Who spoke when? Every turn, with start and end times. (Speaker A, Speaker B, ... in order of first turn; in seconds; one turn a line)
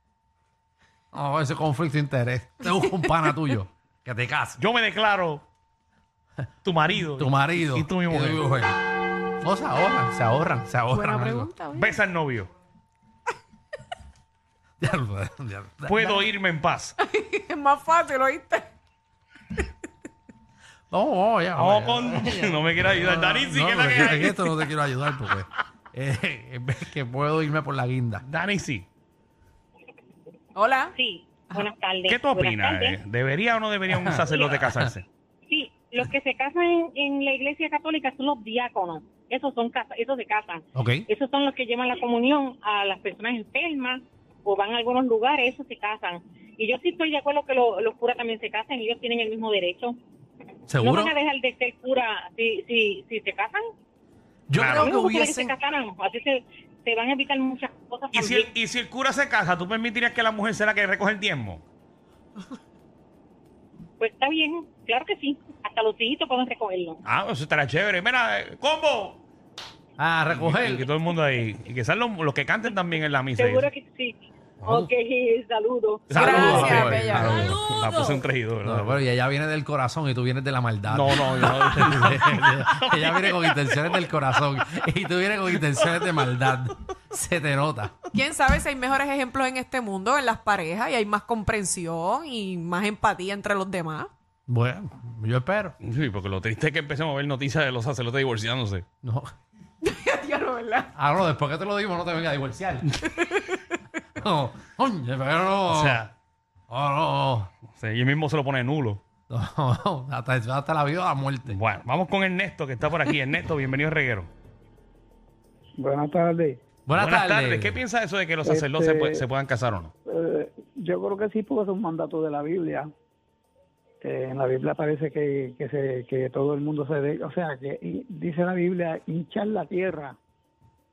Speaker A: 1.1-4.6
Speaker B: 2.8-3.3
Speaker C: 4.6-5.5
Speaker C: 6.6-8.4
Speaker A: 7.2-8.8
Speaker A: 9.4-11.5
Speaker B: 10.9-12.0
Speaker C: 11.8-12.5
Speaker A: 14.8-16.2
Speaker C: 15.9-17.0
Speaker B: 17.0-18.7
Speaker A: 20.9-28.2
Speaker C: 21.6-24.6
Speaker C: 28.2-28.9
Speaker B: 30.5-30.9
Speaker D: 31.0-33.0
Speaker C: 32.1-35.1
Speaker A: 33.9-34.2
Speaker D: 34.3-34.7
Speaker D: 35.5-50.0
Speaker A: 40.8-41.1
Speaker A: 50.7-51.1
Speaker D: 50.8-53.6
Speaker A: 54.5-55.5
Speaker C: 54.5-55.0
Speaker D: 54.8-58.5
Speaker C: 58.1-61.6
Speaker D: 64.0-67.0
Speaker C: 67.0-69.2
Speaker A: 70.0-70.9
Speaker C: 70.3-73.7
Speaker D: 73.4-76.6
Speaker C: 76.1-79.0
Speaker B: 76.1-78.1
Speaker A: 76.1-77.6
Speaker A: 78.6-88.0
Speaker C: 80.9-83.9
Speaker B: 88.1-94.1
Speaker A: 94.5-95.8
Speaker C: 95.8-98.8
Speaker A: 99.0-99.3
Speaker B: 99.8-100.9
Speaker A: 100.9-103.0
Speaker B: 103.1-103.6
Speaker A: 104.2-106.0
Speaker C: 105.7-106.1
Speaker A: 106.7-107.5
Speaker C: 107.8-109.0
Speaker A: 109.3-111.6
Speaker C: 111.5-114.3
Speaker E: 115.8-116.6
Speaker A: 116.9-117.8
Speaker C: 117.0-119.9
Speaker E: 118.4-119.2
Speaker E: 120.1-122.9
Speaker E: 124.0-130.2